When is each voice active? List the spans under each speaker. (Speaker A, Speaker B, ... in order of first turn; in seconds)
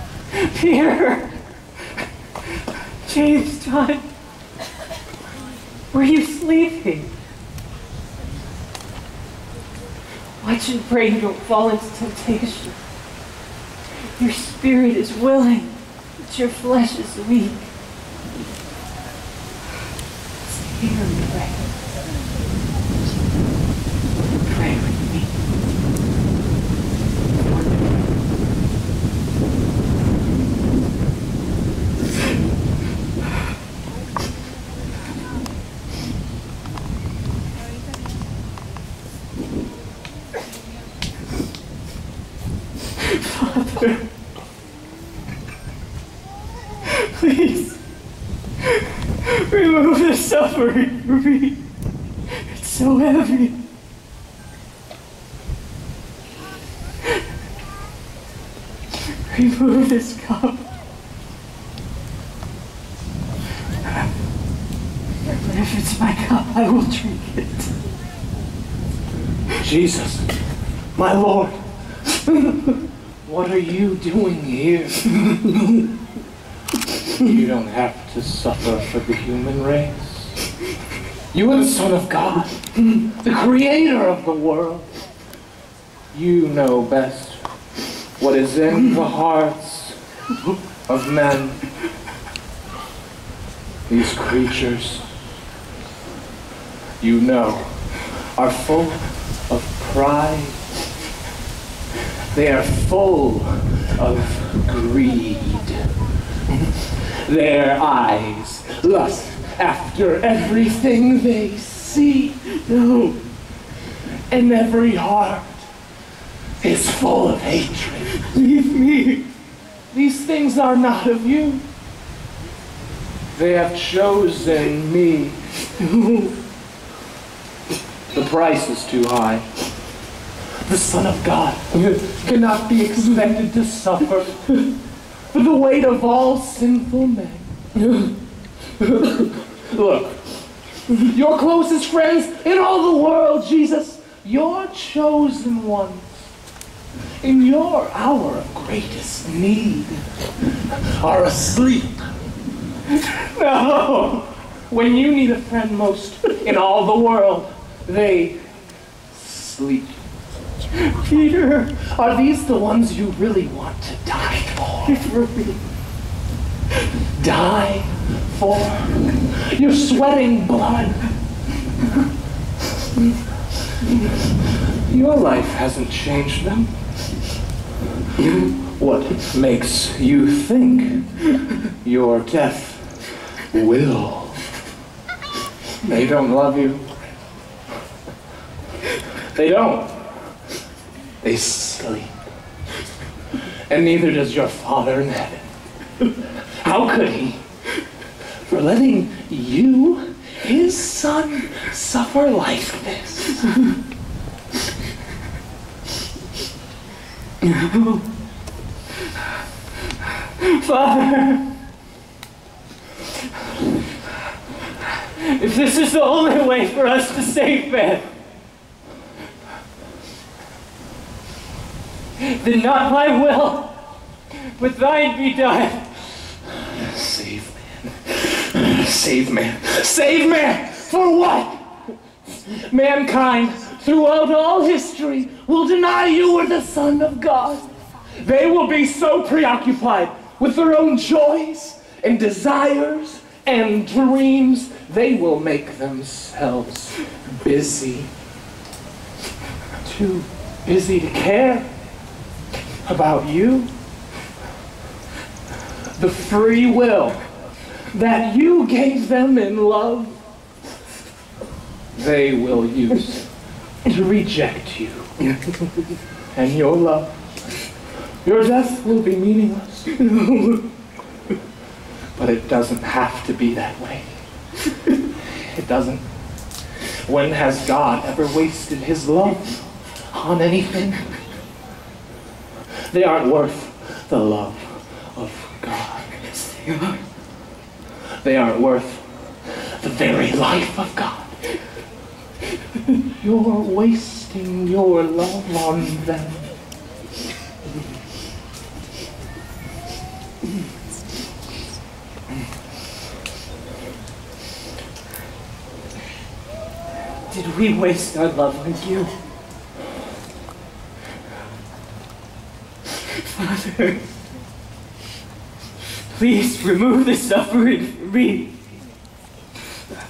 Speaker A: 0.3-1.3, 3.0-4.0, 5.9-7.1, 10.4-12.8, 14.2-17.7, 20.5-21.6, 24.5-25.3, 27.5-27.9, 43.0-44.0, 46.9-47.8, 49.2-51.6, 52.4-53.5, 59.3-60.6, 65.3-67.7, 112.5-113.2, 118.2-119.2, 125.9-126.3, 153.0-154.3, 160.8-161.7, 164.8-165.6, 207.4-208.0, 210.4-211.4, 215.2-218.1, 222.2-223.7, 224.6-226.0, 269.9-270.6, 286.3-287.0, 307.3-309.1, 313.2-314.0, 316.1-318.5
Speaker B: 69.6-70.3, 70.9-75.0, 77.2-80.4, 81.3-84.9, 86.1-87.4, 88.2-90.0, 90.9-91.6, 93.9-95.1, 97.0-100.6, 102.3-105.9, 106.5-112.4, 114.3-115.7, 116.6-118.1, 119.9-121.6, 123.3-125.4, 128.1-129.4, 130.6-134.6, 135.3-138.1, 138.8-140.4, 140.9-146.2, 147.2-150.0, 150.6-152.0, 154.7-158.4, 159.1-160.0, 161.8-165.0, 167.2-171.0, 173.8-176.7, 178.2-181.1, 181.8-184.4, 185.8-187.1, 189.3-190.2, 191.2-192.1, 193.7-195.5, 196.6-197.4, 198.4-203.4, 226.6-231.7, 232.2-248.1, 249.8-251.7, 252.8-253.7, 255.9-257.2, 257.9-260.2, 261.9-263.3, 263.8-265.1, 266.3-267.3, 268.2-269.9, 272.1-274.1, 275.3-276.0, 277.0-281.1, 282.9-286.1, 288.2-289.1, 289.8-291.3, 293.2-296.5